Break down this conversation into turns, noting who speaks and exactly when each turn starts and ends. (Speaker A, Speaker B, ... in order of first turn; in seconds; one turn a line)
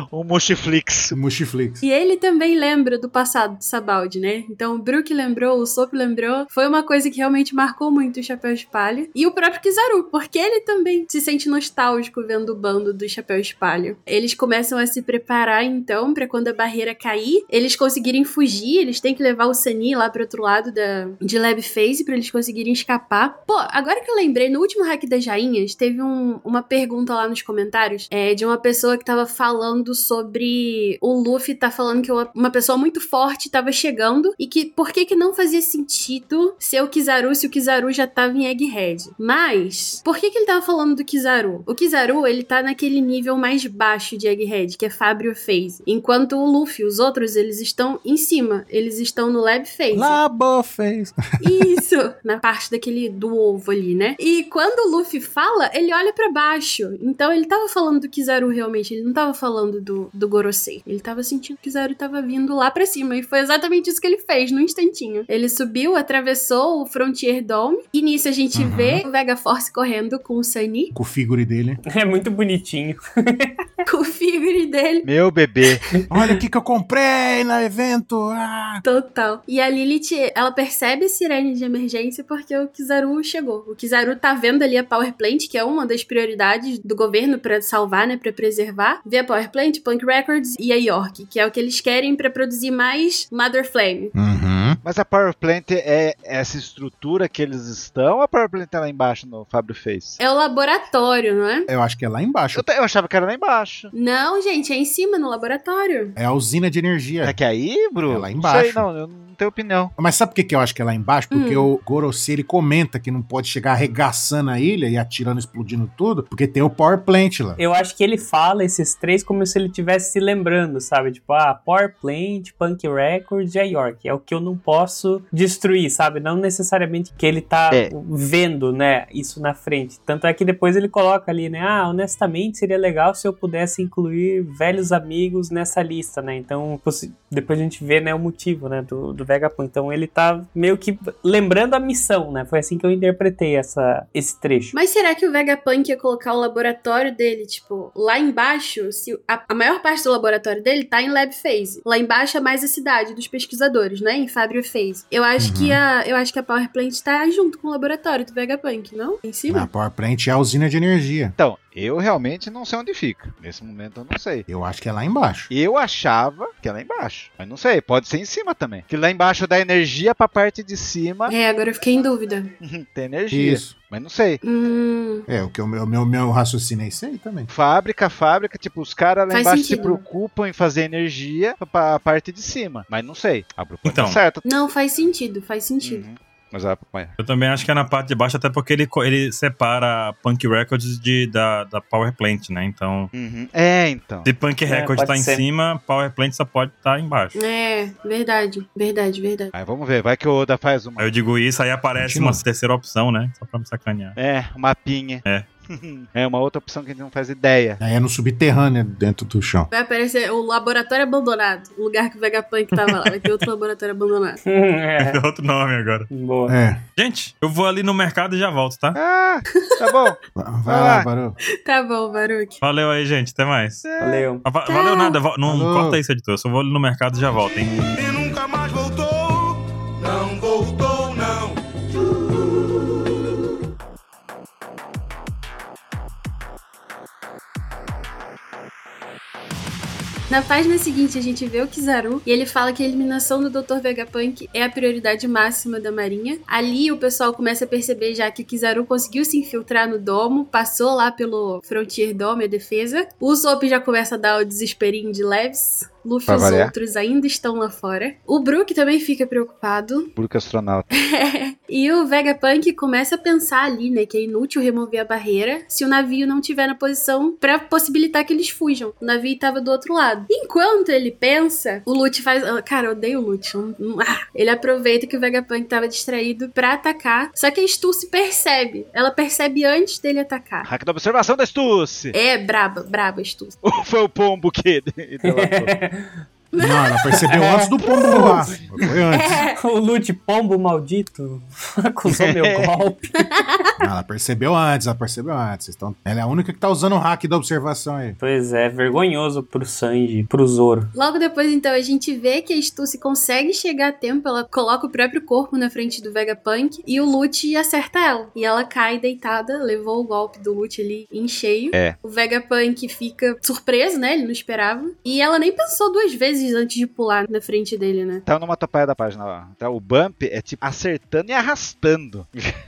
Speaker A: 0.1-1.2
Speaker B: 1.1-1.8
Speaker C: 1.8-50.2
Speaker B: 49.9-51.6
Speaker C: 51.4-70.9
Speaker B: 68.5-69.0
Speaker B: 70.9-71.8
Speaker D: 71.9-73.6
Speaker C: 73.9-75.1
Speaker A: 75.0-75.8
Speaker B: 76.1-78.8
Speaker C: 78.8-94.1
Speaker B: 94.1-94.8
Speaker A: 94.8-100.2
Speaker C: 100.2-101.7
Speaker B: 101.7-102.6
Speaker A: 102.5-103.9
Speaker C: 103.9-106.2
Speaker B: 106.2-107.4
Speaker A: 107.2-109.9
Speaker B: 108.1-108.9
Speaker B: 110.0-117.6
Speaker C: 111.3-111.7
Speaker D: 117.6-144.7
Speaker C: 144.7-159.7
Speaker B: 155.4-155.8
Speaker B: 159.5-161.3
Speaker A: 161.4-164.4
Speaker B: 164.5-165.5
Speaker A: 165.5-171.3
Speaker C: 171.3-172.5
Speaker A: 172.6-174.4
Speaker B: 173.3-173.7
Speaker C: 174.4-175.3
Speaker B: 175.3-177.5
Speaker A: 177.5-184.4
Speaker C: 179.3-180.0
Speaker E: 183.8-184.2
Speaker C: 184.4-186.1
Speaker A: 185.8-187.1
Speaker E: 187.2-193.1
Speaker A: 193.1-194.3
Speaker E: 194.2-197.3
Speaker D: 194.7-195.4
Speaker C: 197.3-199.5
Speaker A: 199.5-201.1
Speaker E: 201.0-204.2
Speaker B: 201.9-202.4
Speaker A: 204.2-207.8
Speaker B: 207.8-209.7
Speaker C: 209.7-214.4
Speaker D: 214.4-215.2
Speaker E: 215.0-216.1
Speaker D: 216.1-216.6
Speaker B: 216.5-216.8
Speaker E: 217.0-219.0
Speaker A: 218.9-221.1
Speaker C: 219.5-220.0
Speaker B: 220.4-221.4
Speaker C: 221.6-222.6
Speaker E: 222.6-223.8
Speaker A: 223.8-224.3
Speaker D: 224.0-224.4
Speaker E: 224.4-227.9
Speaker C: 224.6-225.2
Speaker B: 225.4-226.0
Speaker F: 227.8-232.9
Speaker C: 240.3-260.1
Speaker A: 256.3-256.7
Speaker A: 260.2-260.9
Speaker C: 260.9-280.7
Speaker A: 280.6-282.1
Speaker C: 282.1-283.6
Speaker A: 283.6-285.7
Speaker D: 285.2-286.2
Speaker C: 286.5-288.4
Speaker B: 286.6-289.4
Speaker D: 287.3-287.7
Speaker C: 289.1-289.6
Speaker D: 289.6-293.4
Speaker A: 292.1-292.7
Speaker C: 293.2-293.8
Speaker B: 293.8-298.2
Speaker D: 298.2-300.9
Speaker C: 300.9-318.2
Speaker A: 318.3-322.4